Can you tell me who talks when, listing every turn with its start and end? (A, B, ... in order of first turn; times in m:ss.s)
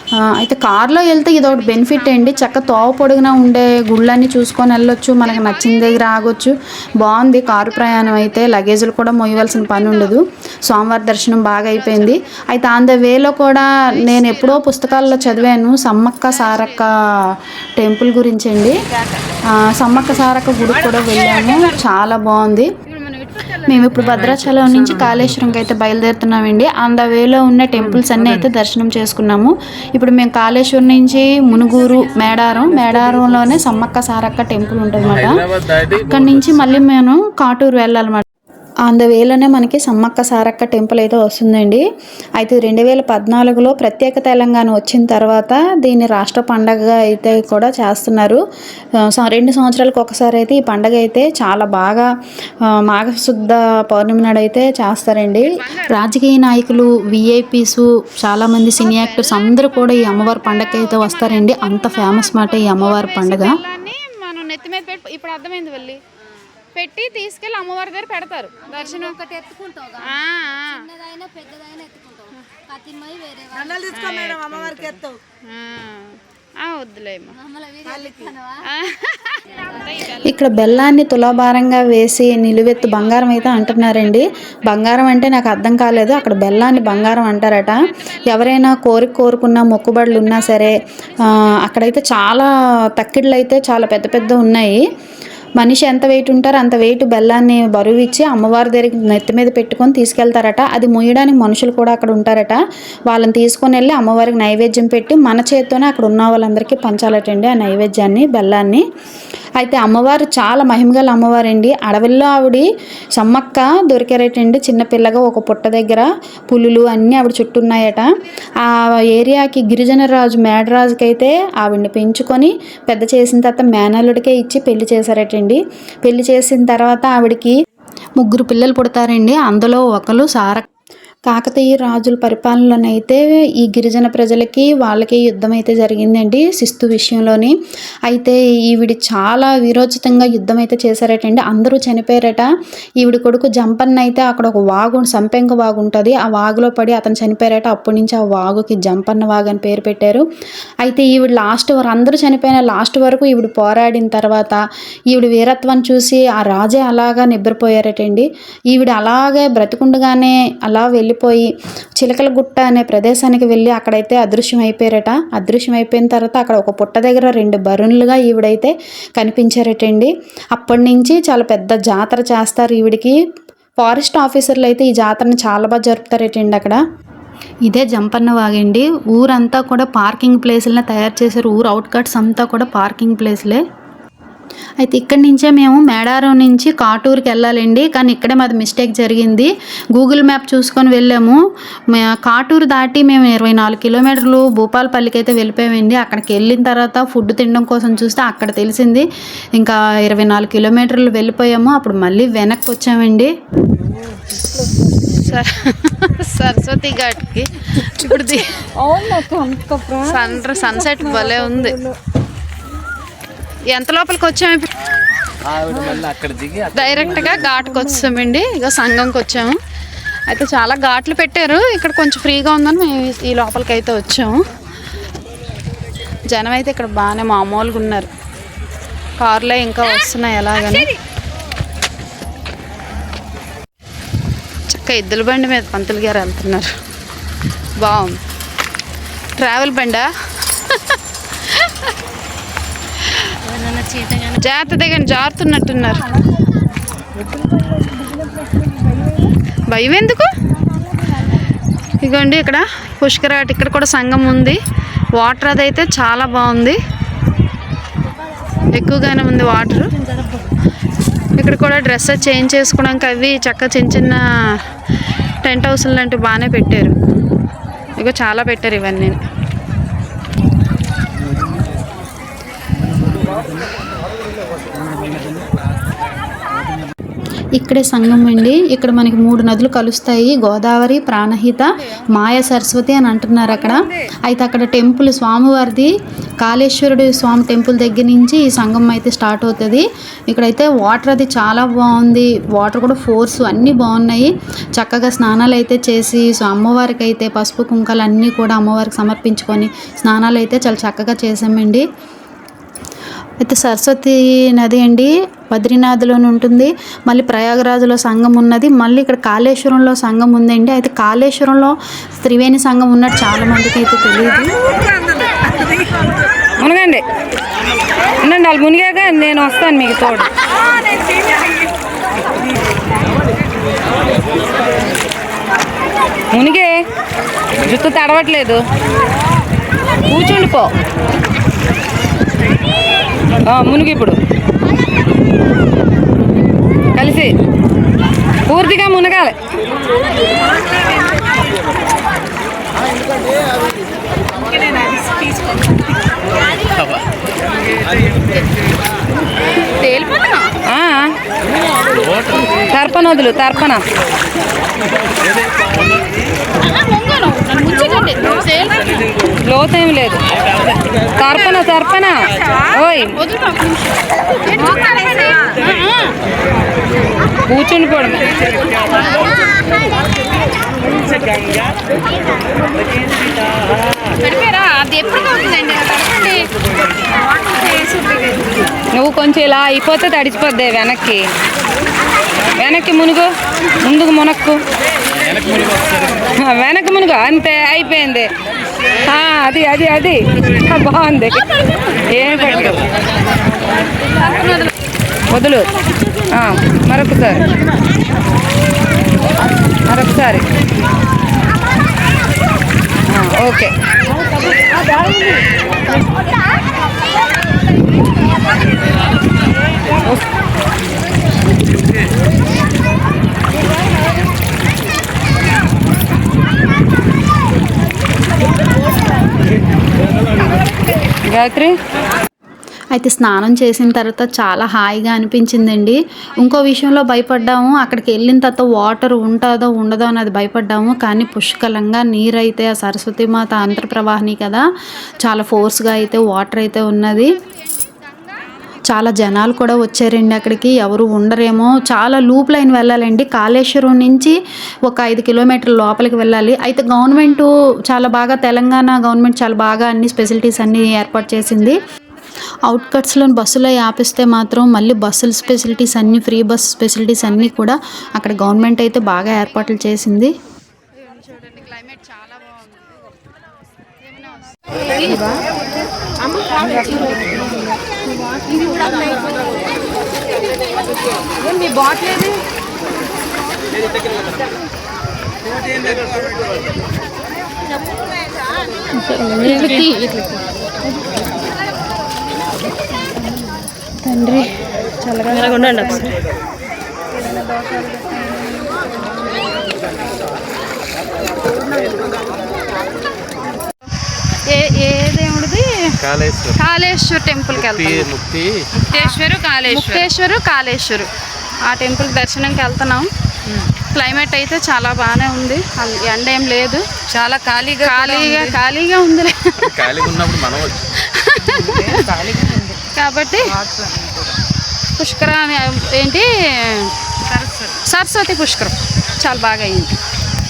0:00.2-0:18.8 A
0:01.4-0:03.2 B
0:05.2-0:06.4 B
0:07.5-0:08.6 B
0:09.4-0:10.2 B
0:11.7-0:12.5 B
0:14.0-0:17.0 B
0:19.5-0:22.7 A
0:23.0-0:23.3 B
0:23.5-0:35.5 A
0:31.5-0:32.6 B
0:35.0-0:36.7 C
0:36.0-0:38.2 A
0:38.9-0:41.8 A
0:42.4-0:48.4 A
0:49.1-0:52.1 A
0:52.7-1:03.6 A
0:55.6-0:56.0 B
0:58.8-0:59.5 B
1:00.5-1:06.0 B
1:06.8-1:09.3 B
1:09.3-1:10.0 D
1:10.0-1:10.9 B
1:10.7-1:13.8 D
1:13.8-1:14.9 B
1:15.5-1:17.4 B
1:17.7-1:18.5 D
1:18.6-1:20.1 B
1:20.1-1:34.8 A
1:35.6-1:48.8 A
1:49.6-2:07.6 A
2:08.2-2:10.7 A
2:11.3-2:17.6 A
2:18.1-2:22.5 A
2:23.0-2:30.2 A
2:30.8-2:34.6 A
2:35.1-2:53.2 A
2:53.8-2:56.8 A
2:57.6-3:03.6 A
3:04.8-3:23.3 A
3:25.0-3:27.4 B
3:27.8-3:28.6 A
3:28.0-3:28.5 B
3:28.8-3:30.0 D
3:30.1-3:31.8 B
3:30.1-3:31.7 A
3:33.7-3:34.7 B
3:35.5-3:37.6 C
3:36.8-3:39.5 B
3:37.3-3:38.0 A
3:40.3-3:44.3 B
3:46.3-3:47.8 B
3:47.7-3:48.1 A
3:49.2-3:50.0 B
3:49.6-3:50.9 A
3:54.7-3:56.7 B
3:57.8-3:58.2 B
3:59.4-4:00.1 B
4:04.4-4:06.1 B
4:09.7-4:10.3 B
4:12.0-4:14.6 A
4:13.3-4:14.2 B
4:15.2-4:15.6 B
4:15.6-4:16.8 A
4:18.8-4:19.8 A
4:21.4-4:21.8 A
4:21.6-4:23.6 B
4:22.9-4:24.2 A
4:25.4-4:27.0 A
4:28.0-4:29.2 B
4:37.6-4:45.9 A
4:46.4-5:01.8 A
5:03.4-5:14.5 A
5:16.6-5:17.0 E
5:18.2-5:20.3 E
5:26.3-5:26.7 E
5:27.6-5:28.6 E
5:30.1-5:30.7 E
5:33.5-5:34.2 E
5:37.0-5:37.3 E
5:38.5-5:39.4 E
5:46.8-5:47.0 C
5:49.7-5:50.5 B
5:50.7-5:51.1 E
5:51.9-5:52.4 C
5:52.7-5:53.8 E
5:56.6-5:58.9 B
5:59.5-6:00.2 E
6:01.2-6:03.1 E
6:03.2-6:06.2 B
6:07.5-6:08.4 E
6:09.0-6:09.3 B
6:14.2-6:16.5 B
6:17.6-6:18.2 B
6:18.9-6:21.3 E
6:22.6-6:23.3 E
6:23.8-6:24.6 E
6:25.2-6:26.2 C
6:26.3-6:28.3 E
6:29.1-6:31.5 E
6:32.0-6:32.9 E
6:34.2-6:34.7 B
6:35.3-6:35.7 E
6:36.3-6:37.5 E
6:39.9-6:40.4 E
6:43.1-6:43.7 E
7:01.3-7:01.8 E
7:02.9-7:14.6 A
7:15.2-7:17.4 A
7:15.2-7:16.0 B
7:17.6-7:18.4 B
7:18.9-7:31.8 A
7:32.7-7:40.3 A
7:35.7-7:36.2 B
7:41.0-7:43.0 B
7:44.0-7:45.5 B
7:46.7-7:47.3 A
7:48.6-7:49.2 B
7:59.4-8:00.1 A
7:59.4-8:00.1 B
8:04.0-8:04.5 A
8:05.0-8:06.1 A
8:05.4-8:06.0 B
8:14.5-8:15.7 B
8:16.0-8:16.6 C
8:16.6-8:18.0 B
8:17.5-8:18.5 C
8:18.8-8:20.1 E
8:18.9-8:21.1 B
8:21.7-8:23.1 B
8:23.9-8:26.8 B
8:27.1-8:28.6 E
8:27.9-8:29.7 B
8:29.6-8:30.8 C
8:31.1-8:32.0 B
8:31.4-8:32.8 E
8:33.0-8:33.5 B
8:33.6-8:33.9 E
8:35.0-8:36.9 B
8:37.5-8:39.9 B